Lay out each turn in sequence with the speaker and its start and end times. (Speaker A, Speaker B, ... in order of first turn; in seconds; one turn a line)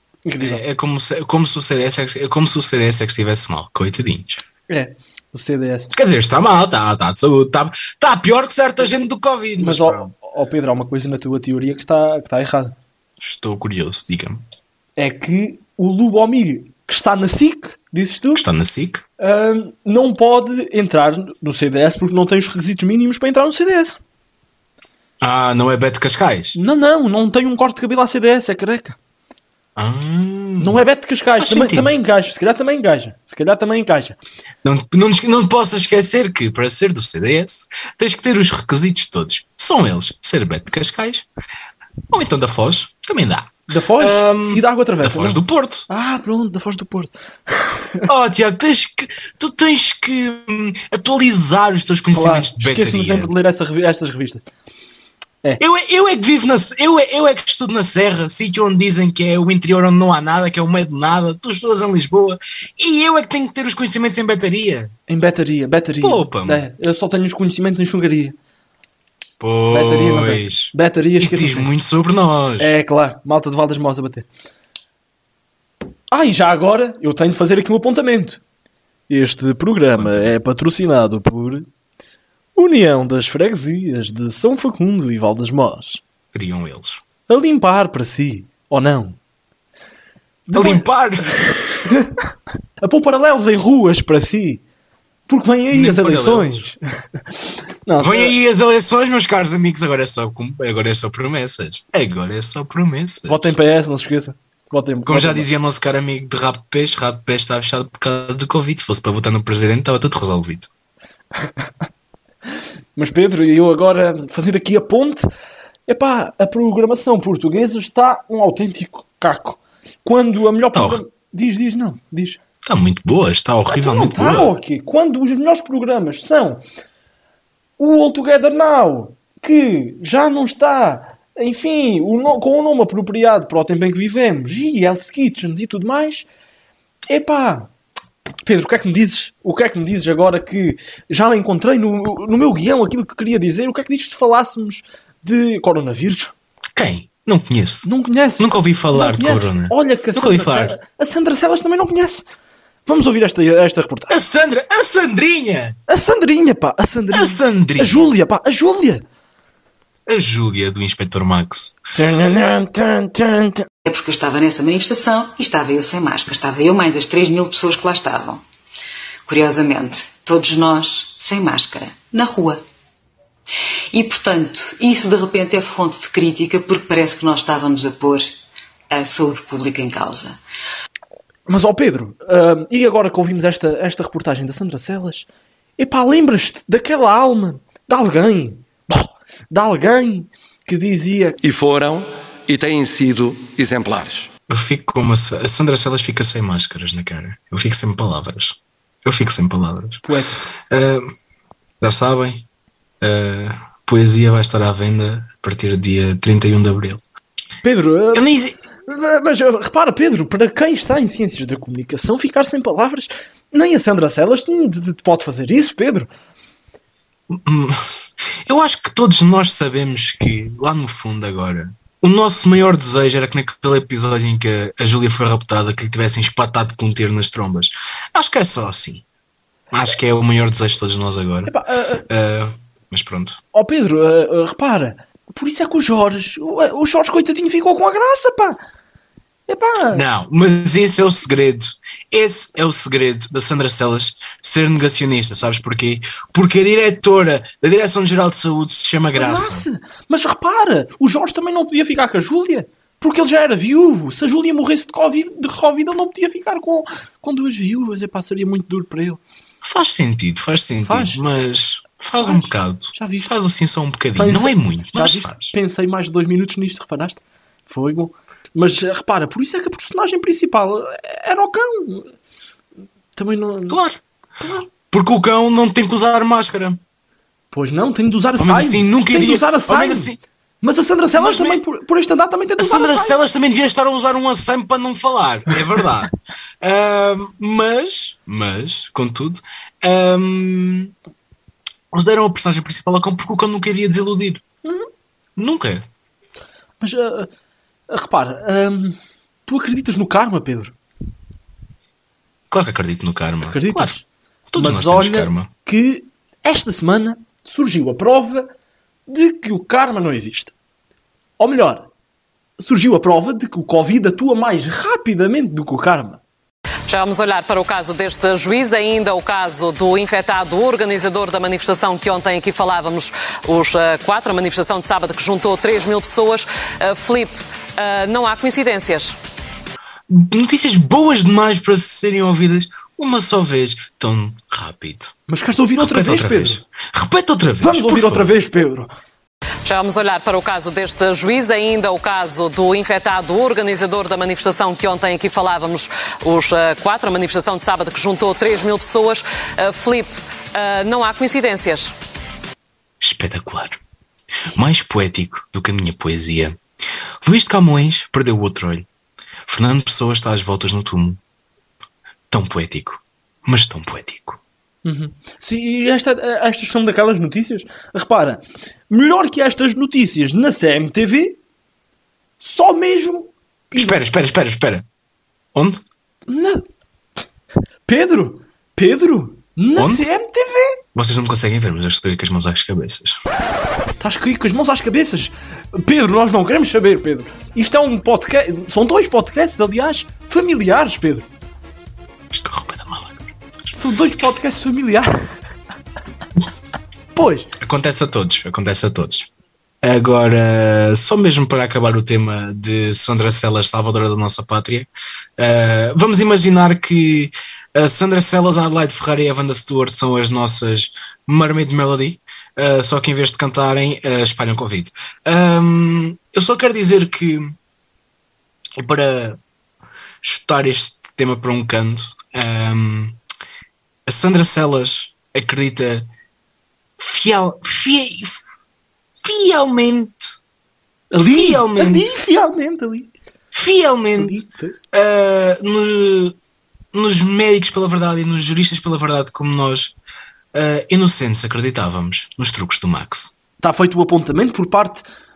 Speaker A: 0.2-0.6
Speaker B: 0.4-4.4
Speaker A: 4.7-5.9
Speaker B: 5.9-10.1
Speaker A: 9.6-12.7
Speaker B: 13.2-14.4
Speaker A: 15.0-18.4
Speaker B: 18.4-19.0
Speaker A: 19.2-24.0
Speaker B: 25.2-26.6
Speaker A: 26.5-29.0
Speaker B: 29.8-30.8
Speaker A: 30.6-34.2
Speaker B: 31.4-31.9
Speaker B: 34.6-41.3
Speaker B: 42.1-45.9
Speaker A: 43.7-48.0
Speaker B: 48.1-53.3
Speaker A: 52.1-54.4
Speaker B: 55.6-64.9
Speaker A: 65.1-68.3
Speaker B: 66.0-66.6
Speaker B: 69.4-72.7
Speaker A: 69.7-71.7
Speaker A: 72.6-74.2
Speaker A: 76.1-78.4
Speaker A: 79.1-81.7
Speaker B: 79.9-80.3
Speaker A: 82.5-86.0
Speaker B: 86.3-87.0
Speaker A: 87.3-89.2
Speaker A: 90.5-92.1
Speaker B: 90.5-91.4
Speaker A: 92.8-94.6
Speaker A: 95.3-96.8
Speaker B: 95.7-96.7
Speaker A: 97.8-98.3
Speaker B: 98.0-103.4
Speaker A: 103.3-105.5
Speaker B: 105.0-110.7
Speaker A: 113.0-115.3
Speaker A: 115.9-122.4
Speaker B: 120.7-121.0
Speaker B: 122.6-124.5
Speaker A: 123.7-126.6
Speaker A: 127.8-136.3
Speaker A: 137.1-137.7
Speaker A: 138.4-146.3
Speaker B: 146.8-150.8
Speaker A: 147.8-152.2
Speaker A: 152.8-154.1
Speaker B: 154.1-155.8
Speaker A: 155.9-159.0
Speaker B: 157.1-158.1
Speaker B: 160.1-161.7
Speaker A: 161.9-163.7
Speaker C: 163.8-168.4
Speaker C: 169.2-172.6
Speaker C: 173.9-178.3
Speaker C: 178.9-180.4
Speaker A: 181.5-185.2
Speaker A: 185.8-191.4
Speaker D: 191.4-194.3
Speaker B: 194.5-200.0
Speaker A: 200.0-200.4
Speaker B: 200.7-201.1
Speaker B: 201.8-202.4
Speaker B: 203.0-207.0
Speaker A: 207.6-208.2
Speaker B: 208.1-208.6
Speaker A: 208.8-216.1
Speaker B: 217.3-217.9
Speaker B: 218.4-229.0
Speaker B: 229.7-231.5
Speaker A: 231.4-232.0
Speaker B: 232.1-233.4
Speaker A: 233.5-238.6
Speaker A: 239.5-240.0
Speaker B: 239.9-249.7
Speaker A: 249.1-259.2
Speaker B: 259.6-265.5
Speaker A: 260.8-261.2
Speaker A: 262.2-263.3
Speaker A: 264.2-272.1
Speaker A: 273.1-273.8
Speaker B: 273.7-274.0
Speaker A: 274.4-274.7
Speaker B: 274.9-276.8
Speaker A: 277.5-283.1
Speaker B: 278.4-280.2
Speaker B: 281.1-281.6
Speaker B: 282.6-290.9
Speaker B: 291.9-294.4
Speaker B: 295.4-295.9
Speaker A: 296.8-297.3
Speaker A: 297.9-300.7
Speaker B: 302.5-303.9
Speaker A: 303.4-304.0
Speaker B: 304.5-305.5
Speaker A: 304.6-308.5
Speaker A: 309.1-310.5
Speaker A: 311.4-311.9
Speaker A: 312.6-316.2
Speaker E: 316.9-329.2
Speaker B: 330.1-335.1
Speaker A: 335.3-336.6
Speaker B: 335.8-338.3
Speaker A: 337.6-338.9
Speaker E: 339.6-351.9
Speaker B: 353.0-353.8
Speaker B: 354.5-356.6
Speaker B: 357.2-358.9
Speaker B: 359.4-361.2
Speaker B: 362.3-364.4
Speaker A: 364.8-371.4
Speaker A: 372.4-374.1
Speaker B: 373.7-374.9
Speaker B: 375.5-375.8
Speaker A: 376.3-376.6
Speaker A: 377.9-380.8
Speaker B: 379.8-380.1
Speaker B: 380.9-383.2
Speaker A: 384.0-391.2
Speaker B: 392.3-393.3
Speaker A: 393.7-395.2
Speaker A: 397.1-397.5
Speaker B: 397.6-399.3
Speaker B: 399.8-417.6
Speaker B: 418.8-419.4
Speaker B: 420.2-423.2
Speaker B: 424.1-426.1
Speaker B: 427.0-428.4
Speaker B: 429.2-430.3
Speaker A: 431.1-433.1
Speaker B: 431.2-432.1
Speaker B: 433.5-436.3
Speaker A: 434.1-434.8
Speaker B: 436.9-439.9
Speaker B: 440.5-443.3
Speaker A: 443.6-445.0